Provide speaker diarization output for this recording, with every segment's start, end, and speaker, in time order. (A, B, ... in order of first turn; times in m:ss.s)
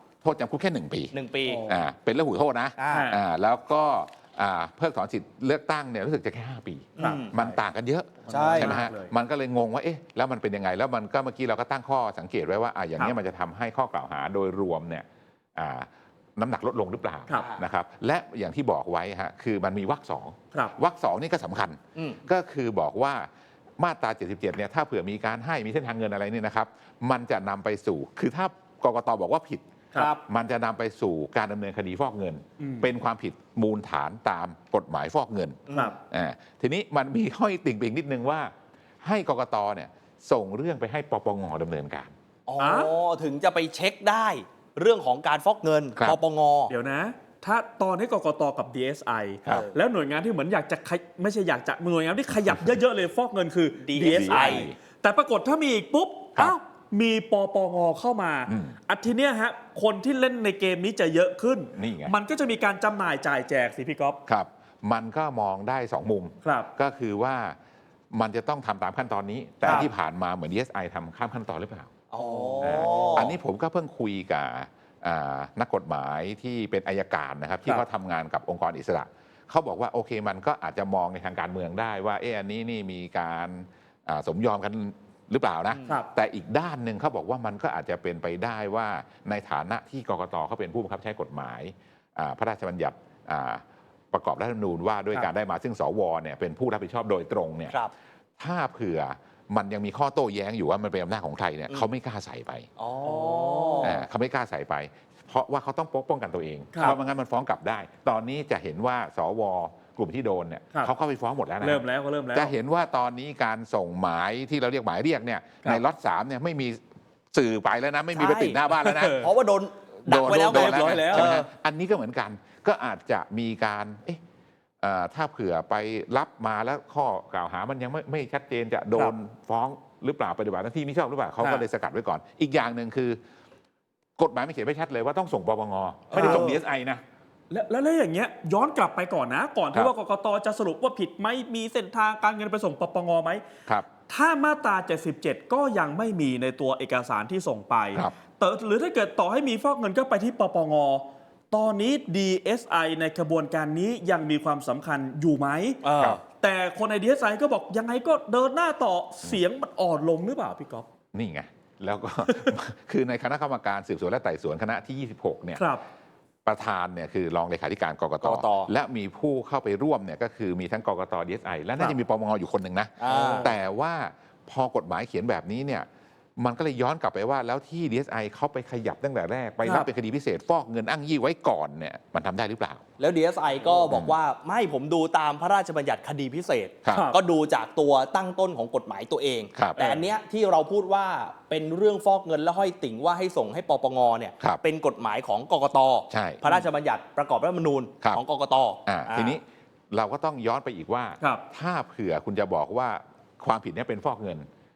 0:00.2-0:01.2 A
0:01.1-0:01.6 B
0:01.5-0:01.8 C
0:01.7-0:38.5 A
0:02.8-0:03.1 B
0:02.9-0:03.2 C
0:07.0-0:07.3 B
0:07.0-0:07.6 C
0:08.2-0:09.1 C
0:08.3-0:08.8 B
0:17.3-0:17.6 B
0:22.0-0:22.2 B
0:30.0-0:30.2 B
0:32.6-0:32.9 C
0:35.7-0:36.0 B
0:39.0-0:42.1 A
0:42.5-0:46.7 B
0:42.6-0:42.9 C
0:46.7-1:04.2 C
0:49.5-0:49.8 B
0:52.4-0:52.7 A
0:53.9-0:54.7 B
0:54.0-0:54.8 A
0:58.5-0:58.8 A
1:01.7-1:02.1 A
1:04.3-1:07.6 A
1:06.4-1:06.7 C
1:08.1-1:11.9 A
1:09.6-1:09.9 C
1:12.1-1:13.4 B
1:12.2-1:13.3 C
1:12.6-1:37.8 A
1:25.7-1:26.0 B
1:38.4-1:42.7 A
1:42.8-1:44.0 B
1:43.0-1:44.0 C
1:43.8-1:56.8 A
1:51.6-1:52.5 C
1:57.3-1:59.3 A
1:58.1-2:01.5 B
1:58.7-1:59.3 C
2:00.1-2:04.2 A
2:00.1-2:01.4 C
2:04.8-2:13.2 A
2:14.2-2:17.0 A
2:16.1-2:16.6 B
2:16.1-2:16.6 C
2:17.5-2:23.4 C
2:24.1-2:40.9 C
2:35.8-2:36.2 B
2:41.1-2:45.7 A
2:42.3-2:42.6 C
2:45.6-2:45.8 C
2:46.4-2:55.9 A
2:48.2-2:48.7 B
2:53.0-2:53.5 B
2:53.1-2:53.6 C
2:56.4-3:02.8 A
2:59.6-2:59.9 C
3:03.0-3:19.4 B
3:03.9-3:04.2 A
3:06.9-3:07.2 C
3:09.5-3:09.8 A
3:09.8-3:10.0 C
3:16.1-3:16.4 A
3:18.9-3:24.5 A